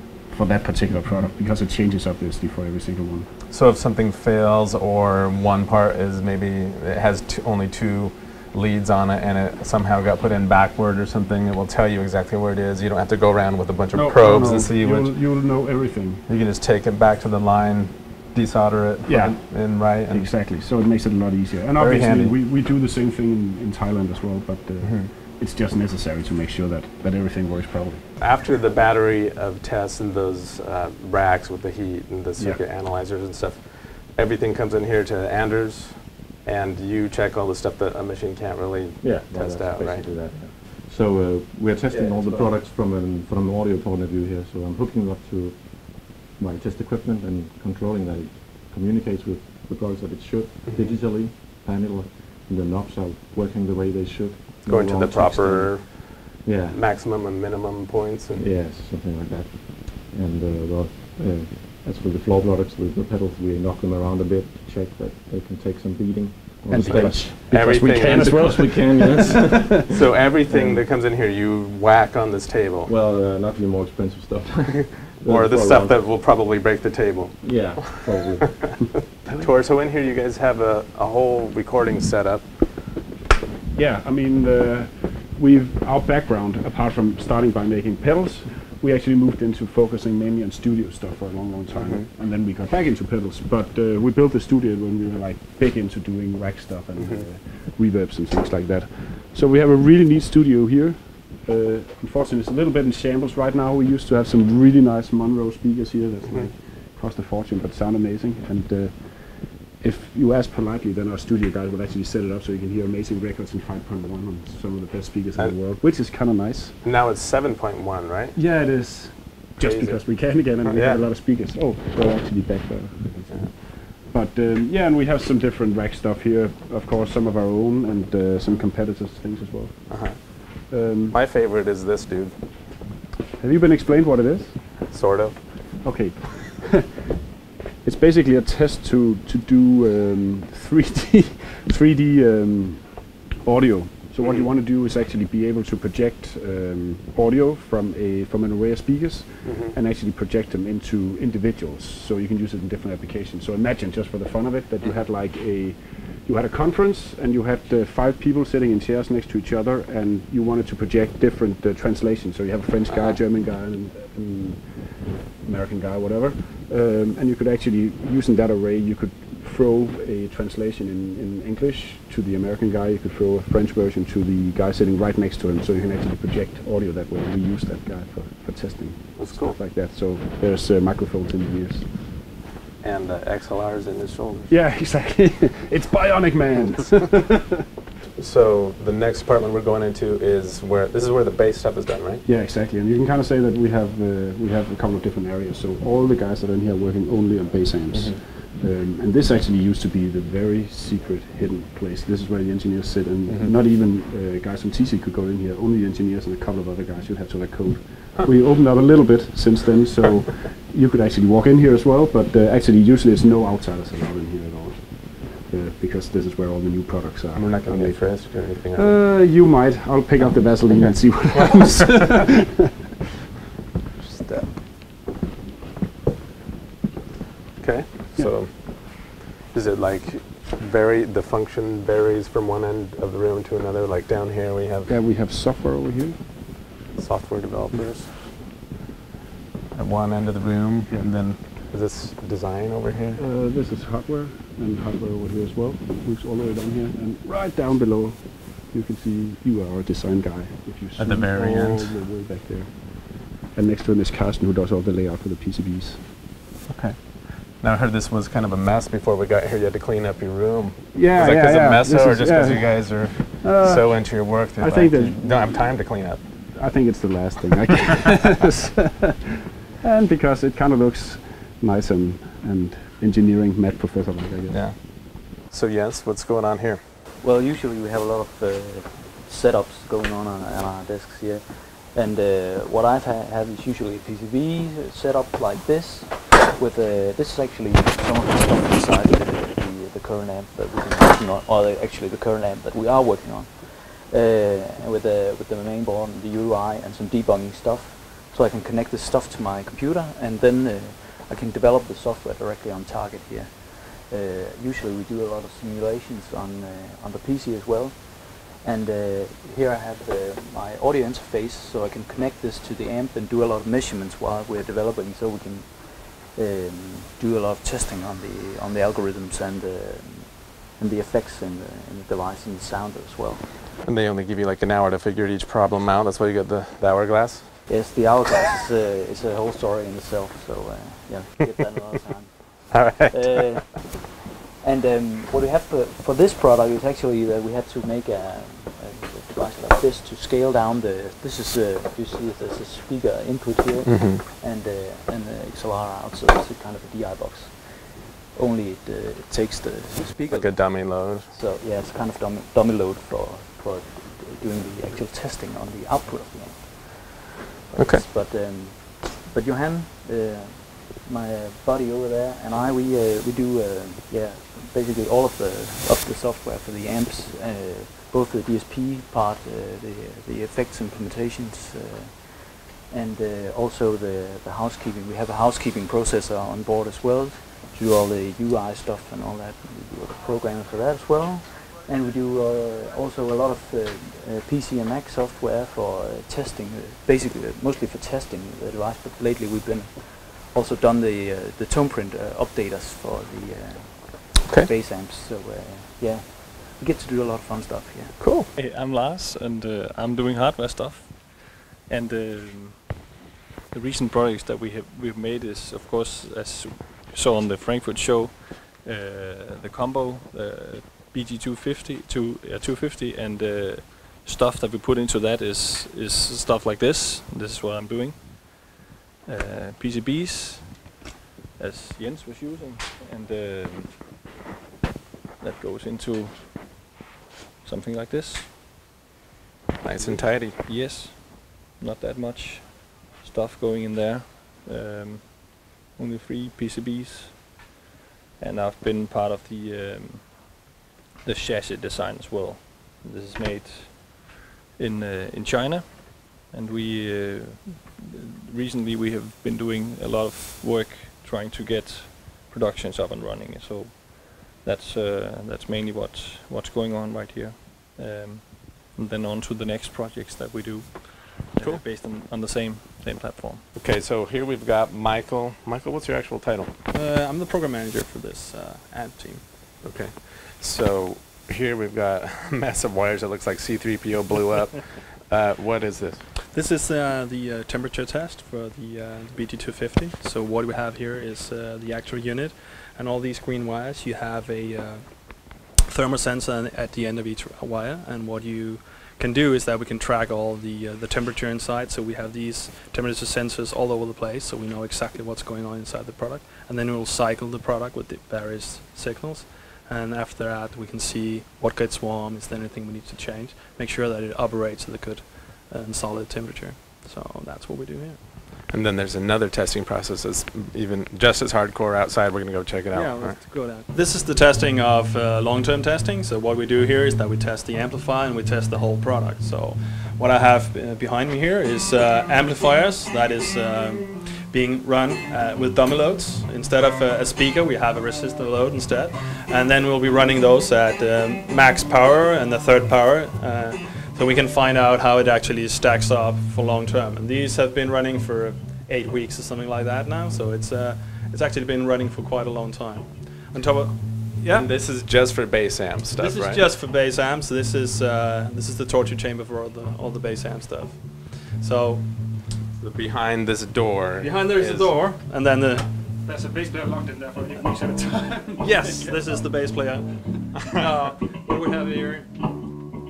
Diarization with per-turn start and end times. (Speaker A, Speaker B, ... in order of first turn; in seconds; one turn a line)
Speaker A: 0.3-3.3
Speaker B: 3.5-15.1
Speaker A: 13.9-16.2
Speaker B: 16.3-20.3
Speaker A: 19.1-28.0
Speaker B: 21.8-22.3
Speaker B: 24.8-25.1
Speaker B: 28.2-40.4
Speaker A: 32.4-32.6
Speaker C: 39.0-56.8
Speaker B: 41.9-42.5
Speaker B: 50.7-51.0
Speaker B: 54.6-58.5
Speaker C: 58.3-70.8
Speaker A: 66.7-69.8
Speaker B: 66.8-68.7
Speaker B: 69.7-72.9
Speaker C: 72.8-76.0
Speaker B: 74.9-78.1
Speaker C: 77.4-78.7
Speaker B: 78.6-82.9
Speaker A: 83.7-116.8
Speaker B: 91.8-92.1
Speaker B: 97.0-97.2
Speaker B: 116.8-118.4
Speaker A: 118.3-131.2
Speaker B: 119.6-121.0
Speaker B: 129.9-132.3
Speaker A: 133.4-134.6
Speaker B: 134.9-135.8
Speaker A: 135.8-136.9
Speaker A: 137.8-164.8
Speaker B: 149.4-149.7
Speaker A: 165.4-181.9
Speaker B: 179.2-179.6
Speaker B: 182.8-184.5
Speaker A: 184.5-187.6
Speaker B: 188.2-192.2
Speaker A: 192.2-222.7
Speaker B: 197.9-198.2
Speaker B: 203.3-203.5
Speaker B: 217.3-219.1
Speaker B: 227.6-234.9
Speaker A: 234.9-236.2
Speaker B: 236.9-238.3
Speaker B: 239.7-243.2
Speaker A: 243.2-256.0
Speaker B: 251.0-251.9
Speaker B: 256.7-266.5
Speaker A: 260.9-269.2
Speaker A: 269.8-274.6
Speaker B: 274.5-276.8
Speaker D: 277.2-323.7
Speaker B: 323.8-327.6
Speaker D: 327.7-334.0
Speaker B: 332.7-333.7
Speaker D: 334.6-398.2
Speaker B: 343.9-344.2
Speaker B: 350.3-351.3
Speaker B: 357.8-358.0
Speaker B: 398.2-398.5
Speaker E: 398.5-403.1
Speaker E: 403.7-418.7
Speaker E: 419.2-420.9
Speaker E: 421.6-424.2
Speaker E: 425.4-426.9
Speaker E: 427.6-428.6
Speaker B: 429.8-430.6
Speaker E: 429.9-437.7
Speaker E: 438.4-440.7
Speaker E: 441.2-463.6
Speaker B: 461.6-461.8
Speaker B: 463.7-466.7
Speaker F: 466.9-469.4
Speaker B: 469.8-476.3
Speaker F: 476.4-508.3
Speaker B: 508.7-513.7
Speaker F: 512.9-544.7
Speaker B: 544.5-546.6
Speaker F: 546.1-552.3
Speaker B: 552.8-555.0
Speaker F: 554.2-555.9
Speaker A: 556.2-559.5
Speaker F: 558.6-562.4